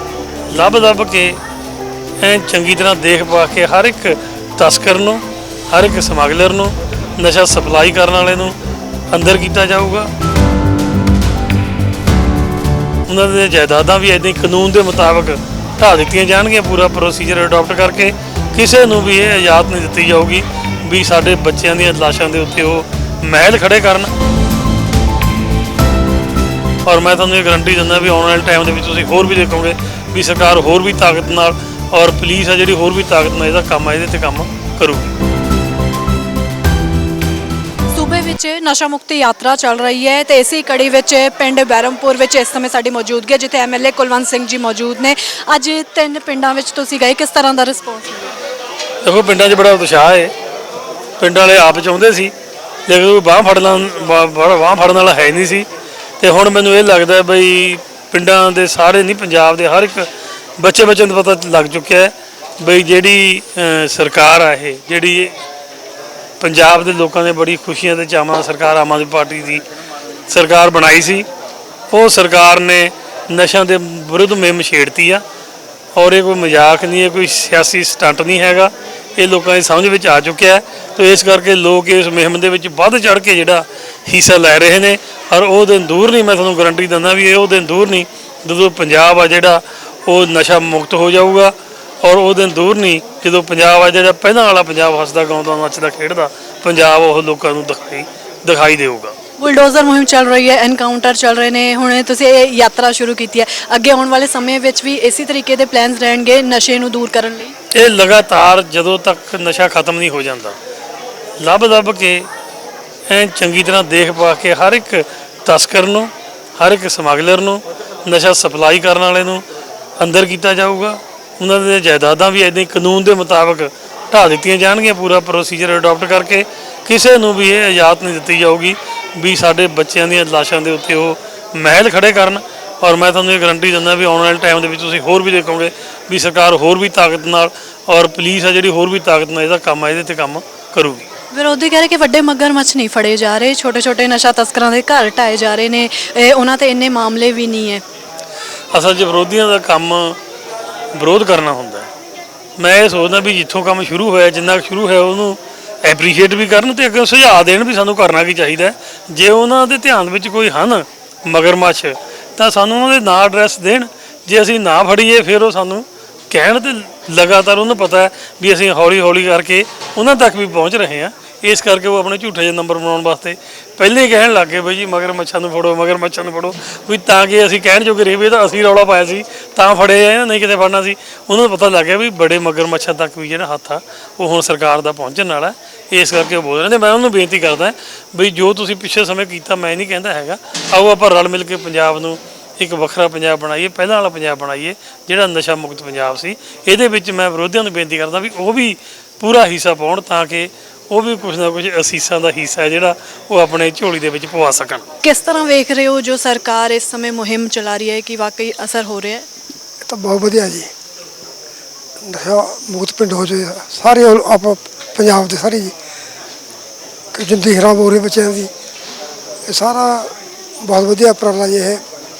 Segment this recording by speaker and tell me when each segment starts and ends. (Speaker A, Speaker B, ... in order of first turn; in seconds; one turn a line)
Speaker A: 0.5-1.4
Speaker A: 2.2-8.6
Speaker A: 9.1-10.1
Speaker A: 13.1-24.1
Speaker A: 26.9-35.1
Speaker B: 37.9-48.3
Speaker A: 49.0-50.3
Speaker A: 51.2-52.3
Speaker A: 52.9-55.7
Speaker A: 56.2-65.3
Speaker A: 66.4-69.6
Speaker A: 70.3-71.3
Speaker A: 71.9-75.2
Speaker A: 76.0-99.2
Speaker B: 99.4-107.5
Speaker A: 107.8-110.6
Speaker A: 111.4-112.3
Speaker A: 113.1-119.4
Speaker A: 120.0-141.0
Speaker B: 141.3-147.8
Speaker A: 148.7-150.2
Speaker A: 150.9-151.9
Speaker A: 152.6-204.8
Speaker B: 205.0-209.2
Speaker C: 209.8-210.7
Speaker C: 212.0-215.7
Speaker C: 217.1-218.5
Speaker C: 219.5-221.8